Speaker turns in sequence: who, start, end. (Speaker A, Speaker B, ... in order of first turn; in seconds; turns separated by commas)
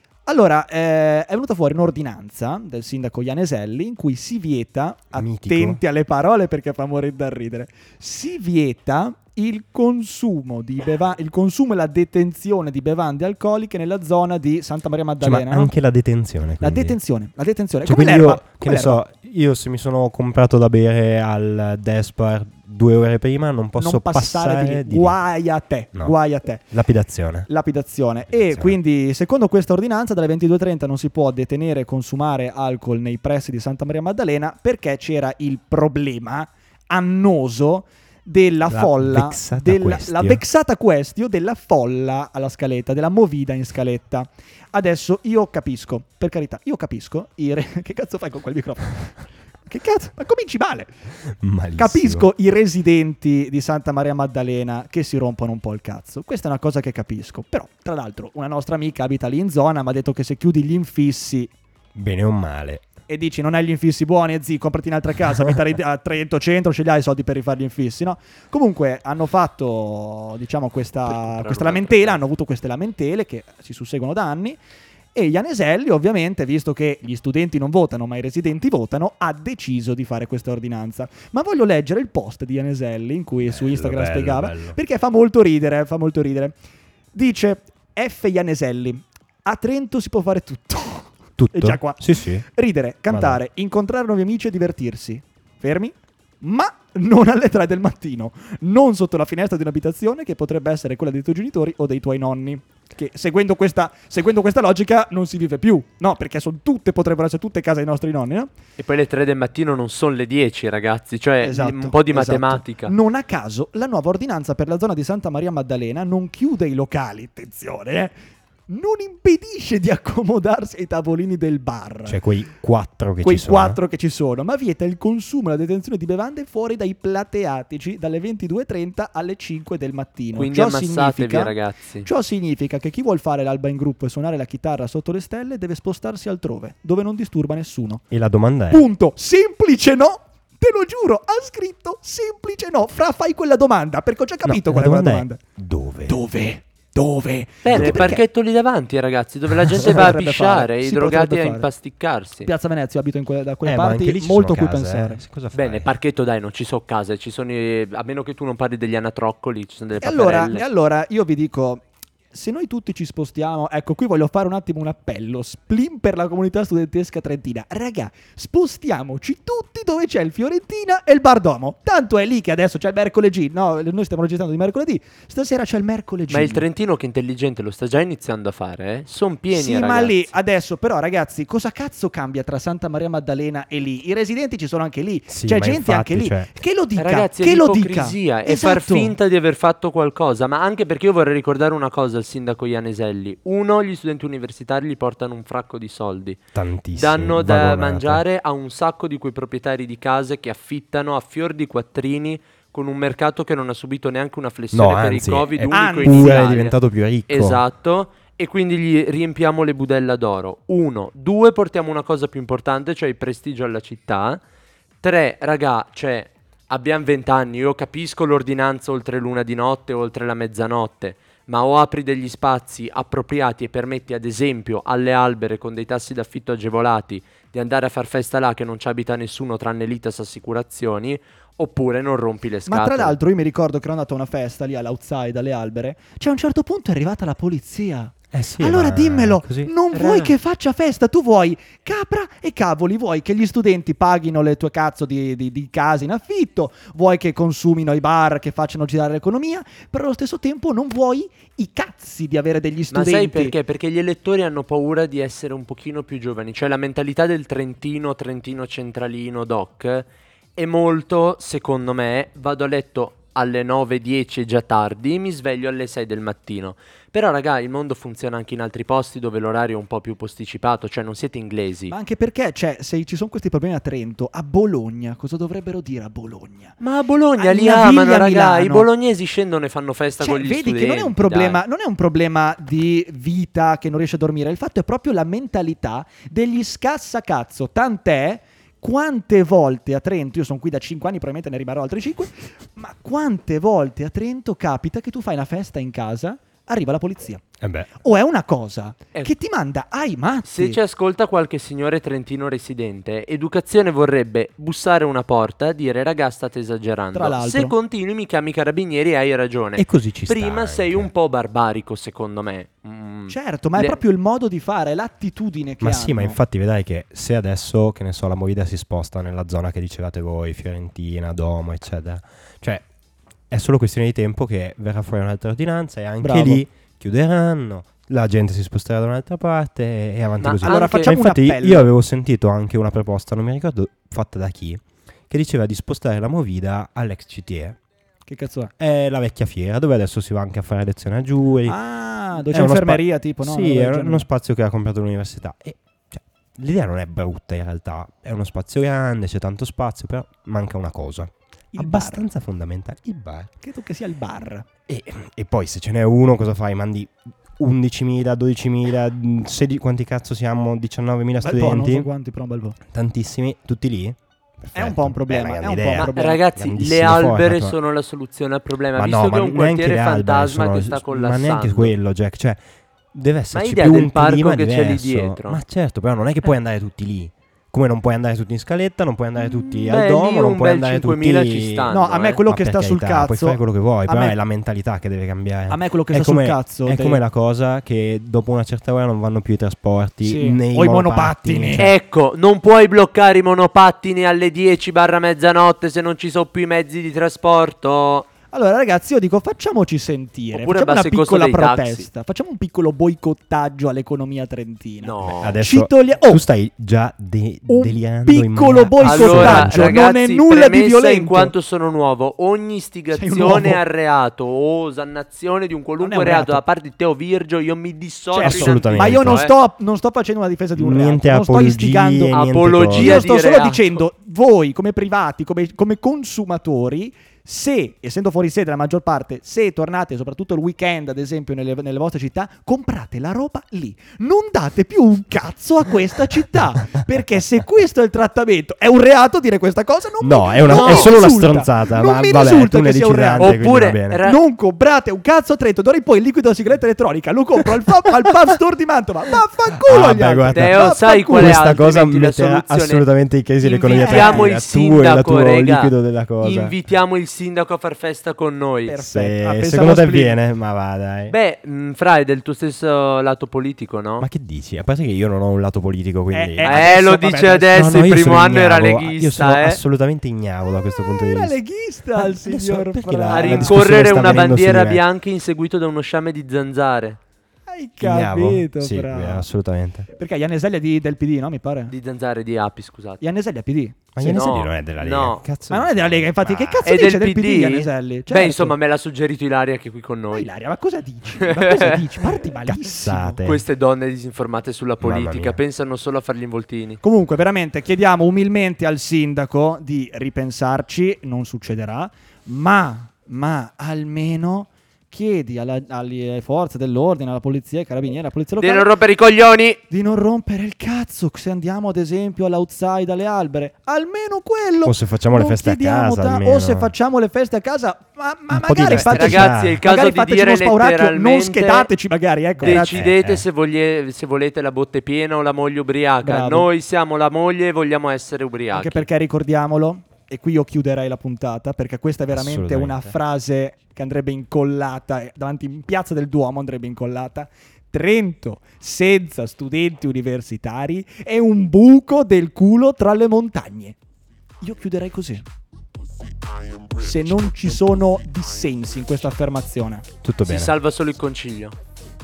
Speaker A: 0.3-15.7, Speaker B: 5.1-5.8, Speaker B: 15.2-17.0, Speaker A: 16.6-19.0, Speaker B: 17.9-25.2, Speaker A: 23.8-26.7, Speaker B: 26.7-27.5, Speaker A: 27.5-50.9, Speaker B: 28.3-28.8, Speaker B: 38.7-40.4, Speaker B: 51.4-52.3, Speaker A: 51.8-61.5, Speaker B: 62.0-62.9, Speaker A: 63.1-74.6, Speaker C: 71.0-72.2, Speaker A: 75.2-86.6, Speaker B: 83.5-84.8, Speaker A: 87.1-108.5, Speaker B: 91.4-92.5, Speaker B: 93.1-93.4, Speaker C: 108.8-112.9, Speaker A: 111.4-118.1, Speaker A: 118.7-122.2, Speaker B: 122.1-123.8, Speaker A: 123.2-138.1, Speaker C: 130.3-132.1, Speaker B: 138.1-138.8, Speaker A: 138.7-145.4, Speaker B: 144.4-146.2, Speaker A: 146.1-148.2, Speaker C: 147.6-152.5, Speaker B: 147.7-148.1, Speaker A: 149.8-151.7, Speaker A: 152.4-155.2, Speaker B: 153.7-155.9, Speaker C: 155.5-160.7, Speaker A: 160.0-176.6, Speaker C: 176.3-180.3, Speaker A: 179.5-189.2, Speaker B: 185.3-186.5, Speaker C: 187.0-196.4, Speaker B: 196.6-198.2, Speaker C: 196.9-206.8, Speaker B: 204.7-207.6, Speaker A: 205.7-206.5, Speaker C: 207.3-214.4, Speaker C: 215.0-233.2, Speaker A: 232.7-253.6, Speaker B: 238.3-239.7, Speaker C: 239.9-240.3, Speaker C: 252.9-271.9, Speaker A: 271.9-276.8, Speaker C: 276.8-281.6, Speaker A: 277.4-278.9, Speaker A: 280.2-297.4, Speaker B: 297.6-297.9, Speaker A: 298.0-300.8, Speaker C: 300.5-314.0, Speaker A: 307.1-307.7, Speaker B: 309.8-311.1, Speaker A: 313.3-316.4, Speaker B: 315.8-322.8, Speaker B: 323.5-337.8, Speaker A: 326.2-326.6, Speaker C: 330.4-331.1, Speaker A: 330.6-331.9, Speaker A: 338.3-338.7, Speaker B: 338.8-341.8, Speaker A: 341.7-344.3, Speaker B: 342.4-353.5, Speaker A: 351.7-352.2, Speaker A: 353.6-354.7, Speaker B: 354.9-362.1, Speaker A: 361.4-362.8, Speaker B: 362.9-367.8, Speaker A: 364.8-366.4, Speaker C: 366.1-371.9, Speaker B: 369.0-372.6, Speaker B: 373.1-381.9, Speaker C: 373.5-375.6, Speaker C: 379.9-382.4, Speaker A: 381.9-384.4, Speaker B: 382.5-392.0, Speaker A: 385.7-387.2, Speaker A: 390.2-391.9, Speaker C: 391.8-398.3, Speaker A: 398.5-406.4, Speaker C: 400.5-402.1, Speaker C: 405.0-405.6, Speaker B: 405.4-409.9, Speaker A: 407.7-411.5, Speaker C: 409.0-419.5, Speaker A: 413.1-413.8, Speaker A: 416.0-416.6, Speaker A: 418.3-443.6, Speaker B: 418.4-419.5, Speaker B: 420.8-423.2, Speaker C: 422.3-424.0, Speaker B: 440.2-444.2, Speaker C: 440.7-441.1, Speaker C: 443.4-444.4, Speaker A: 444.2-451.7, Speaker B: 449.8-456.8, Speaker C: 450.5-453.1, Speaker A: 453.6-454.5, Speaker C: 453.9-459.0, Speaker A: 458.9-460.4, Speaker B: 459.1-461.4, Speaker C: 461.3-464.3, Speaker B: 464.2-466.9, Speaker A: 466.3-467.9, Speaker C: 466.6-469.8, Speaker B: 467.7-471.6, Speaker A: 470.6-474.6, Speaker B: 472.1-475.1, Speaker C: 473.3-477.2, Speaker A: 477.7-479.5, Speaker B: 478.0-480.1, Speaker A: 480.1-481.9, Speaker C: 481.9-483.2, Speaker A: 483.2-484.6, Speaker B: 484.2-486.9, Speaker C: 484.2-485.4, Speaker A: 485.7-488.8, Speaker C: 486.9-490.5, Speaker A: 490.3-493.4, Speaker C: 491.4-492.0, Speaker B: 492.6-493.6, Speaker C: 493.4-497.0, Speaker B: 495.0-495.6, Speaker A: 497.0-508.9, Speaker C: 508.6-509.8, Speaker A: 509.9-523.1, Speaker B: 514.9-516.9, Speaker B: 518.5-519.8, Speaker C: 518.9-521.9, Speaker B: 522.6-523.5, Speaker C: 522.6-529.1, Speaker A: 526.2-526.7, Speaker A: 528.7-544.0, Speaker B: 532.3-533.1, Speaker A: 544.6-545.4, Speaker A: 547.0-550.0, Speaker B: 550.2-550.7, Speaker C: 550.5-551.8